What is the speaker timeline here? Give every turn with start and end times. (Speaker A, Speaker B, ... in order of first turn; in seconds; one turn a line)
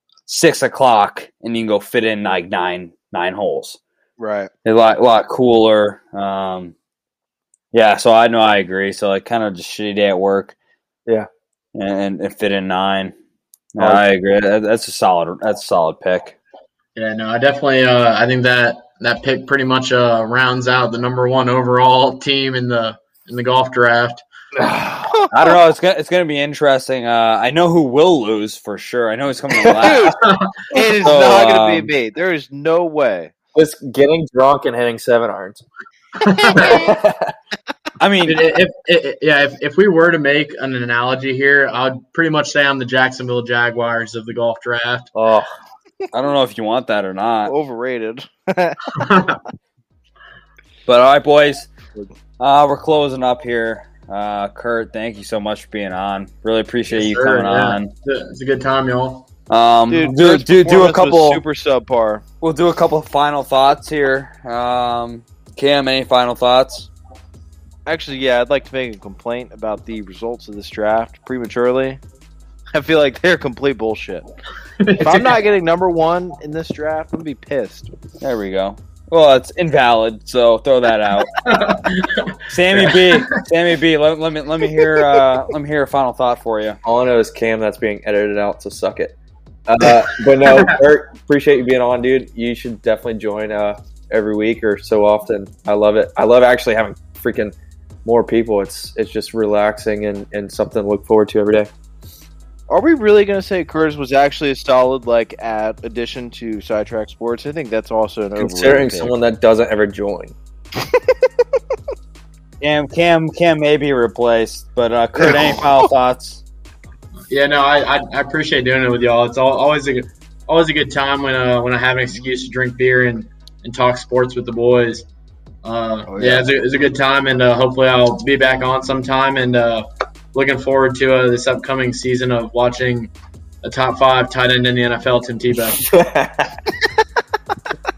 Speaker A: 0.3-3.8
Speaker B: 4.2-4.5
Speaker A: 4.6-6.7
Speaker A: 7.7-10.5
Speaker A: 11.7-13.1
Speaker A: 13.7-16.4
Speaker C: 13.8-14.0
Speaker D: 16.9-24.2
Speaker B: 24.6-25.5
Speaker A: 25.3-30.2
Speaker B: 29.7-30.2
Speaker D: 30.2-30.5
Speaker B: 30.7-33.3
Speaker A: 31.0-31.9
Speaker C: 33.5-35.6
Speaker D: 36.2-36.9
Speaker B: 36.4-36.9
Speaker C: 36.5-37.3
Speaker A: 38.0-38.4
Speaker D: 38.3-45.1
Speaker C: 45.1-45.5
Speaker A: 46.1-47.5
Speaker B: 47.5-49.0
Speaker D: 48.9-49.4
Speaker A: 50.9-51.7
Speaker A: 52.4-57.9
Speaker D: 56.9-59.3
Speaker A: 59.5-61.4
Speaker B: 59.9-62.2
Speaker A: 62.4-66.9
Speaker B: 67.8-72.0
Speaker B: 72.7-74.2
Speaker D: 74.8-75.4
Speaker B: 75.0-77.9
Speaker A: 78.2-81.5
Speaker D: 81.4-83.3
Speaker A: 82.5-86.8
Speaker C: 86.8-89.1
Speaker C: 89.7-101.7
Speaker D: 89.8-90.8
Speaker B: 102.7-109.1
Speaker C: 108.3-110.3
Speaker A: 112.6-116.4
Speaker B: 115.3-115.6
Speaker D: 117.3-125.0
Speaker D: 125.6-133.1
Speaker B: 126.1-126.5
Speaker D: 133.6-135.8
Speaker C: 135.8-136.6